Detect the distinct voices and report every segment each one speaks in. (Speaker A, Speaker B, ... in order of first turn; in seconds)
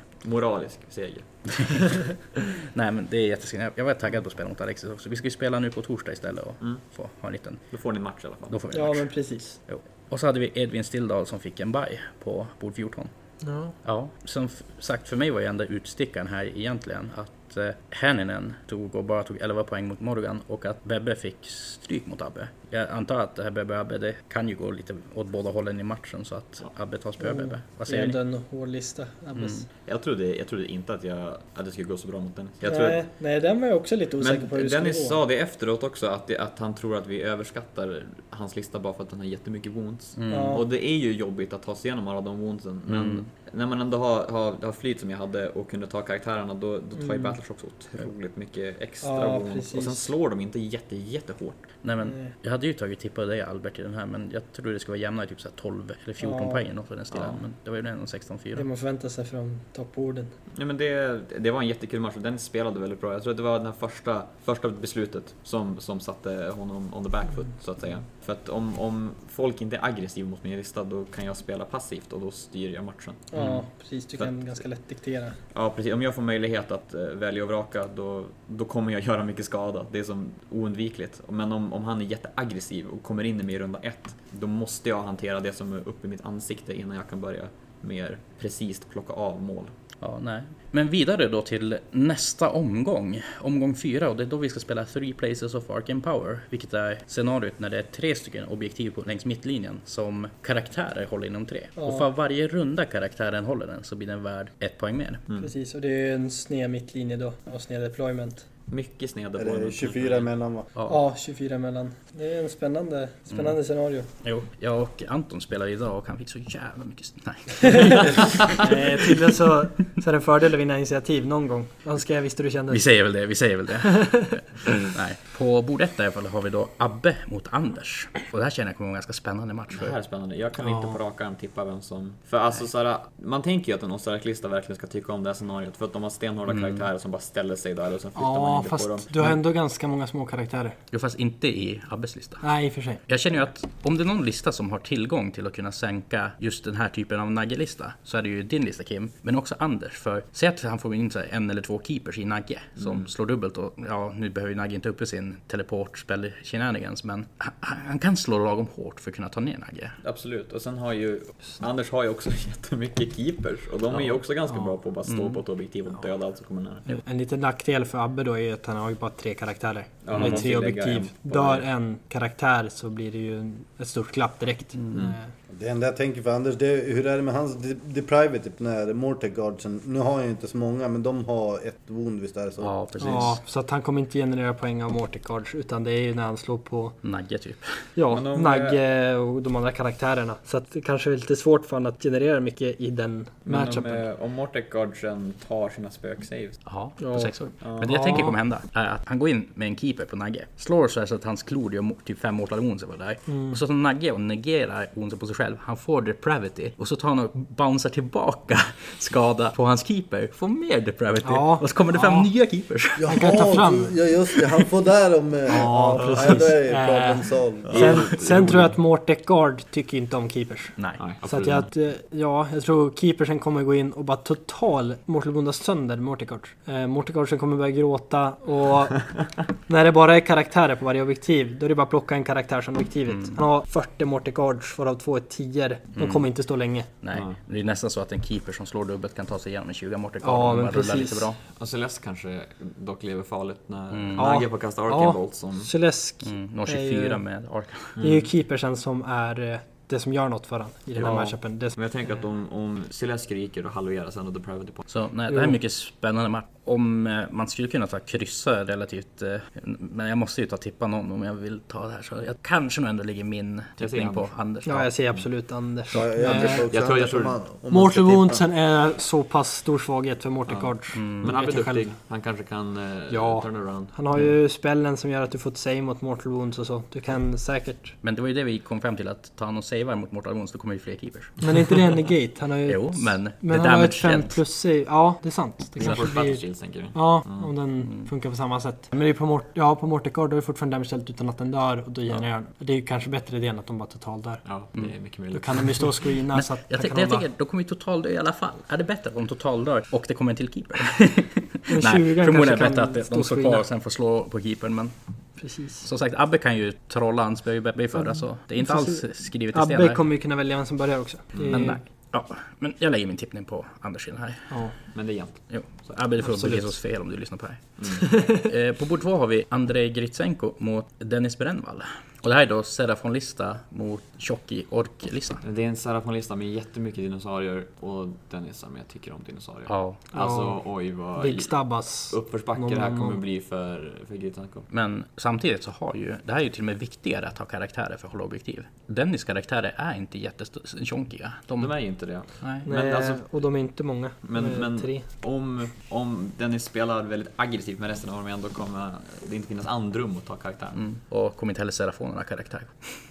Speaker A: 0.2-1.9, 7.7-8.6, 29.9-33.0, 34.2-51.7, 57.1-57.4, 60.5-73.6, 75.5-89.7, 108.7-110.3, 129.7-139.1, 152.8-153.1, 160.0-166.9, 170.0-171.6, 188.1-188.8, 193.4-196.6, 197.6-198.1, 215.5-216.4, 217.7-218.7, 221.0-221.7, 241.5-245.7, 248.0-248.3, 251.0-254.8, 263.8-264.3, 266.7-267.4, 270.5-273.9, 285.8-287.5, 294.4-295.9, 314.9-315.7, 317.8-318.1, 325.4-331.6, 332.1-334.7, 341.6-343.2, 344.2-350.8
Speaker B: 2.4-7.6, 8.5-13.1, 13.8-28.2, 29.4-29.6, 40.1-40.6, 42.9-43.3, 51.8-58.6, 90.0-105.2, 110.8-111.0, 114.2-118.7, 122.7-129.9, 136.5-136.8, 140.9-142.4, 143.1-159.9, 165.1-165.4, 170.1-170.4, 182.6-183.4, 187.0-187.7, 196.7-213.1, 220.8-221.0, 233.1-233.3, 235.9-236.3, 237.0-241.4, 243.9-244.2, 246.2-248.0, 254.9-264.9, 265.9-266.6, 270.9-271.3, 278.0-281.5, 282.6-284.4, 296.3-304.9, 305.8-310.0, 311.4-314.5, 315.5-325.4, 329.7-330.0, 334.7-341.7, 350.7-352.7
Speaker C: 8.7-9.6, 13.4-13.8, 27.2-29.6, 32.6-35.2, 40.3-40.6, 47.0-47.4, 49.0-50.1, 52.0-52.3, 56.2-56.6, 58.5-60.3, 73.3-75.4, 101.8-102.1, 105.4-108.4, 110.8-114.1, 117.7-117.9, 118.5-122.9, 130.6-131.0, 138.2-140.8, 142.4-143.0, 166.9-175.3, 183.0-186.9, 187.9-194.1, 197.0-198.3, 203.3-203.6, 211.2-212.3, 213.1-214.0, 215.5-229.1, 229.7-236.9, 240.2-241.3, 244.2-247.2, 248.0-251.8, 255.3-255.5, 264.6-266.6, 267.7-271.9, 273.1-277.9, 281.4-294.4, 295.3-297.2, 301.7-303.6, 305.4-305.9, 307.9-311.8, 316.2-316.7, 318.0-318.5, 330.1-330.6, 331.2-333.2, 342.6-345.0
Speaker D: 109.4-110.7, 175.5-182.7, 213.0-218.1, 265.9-268.4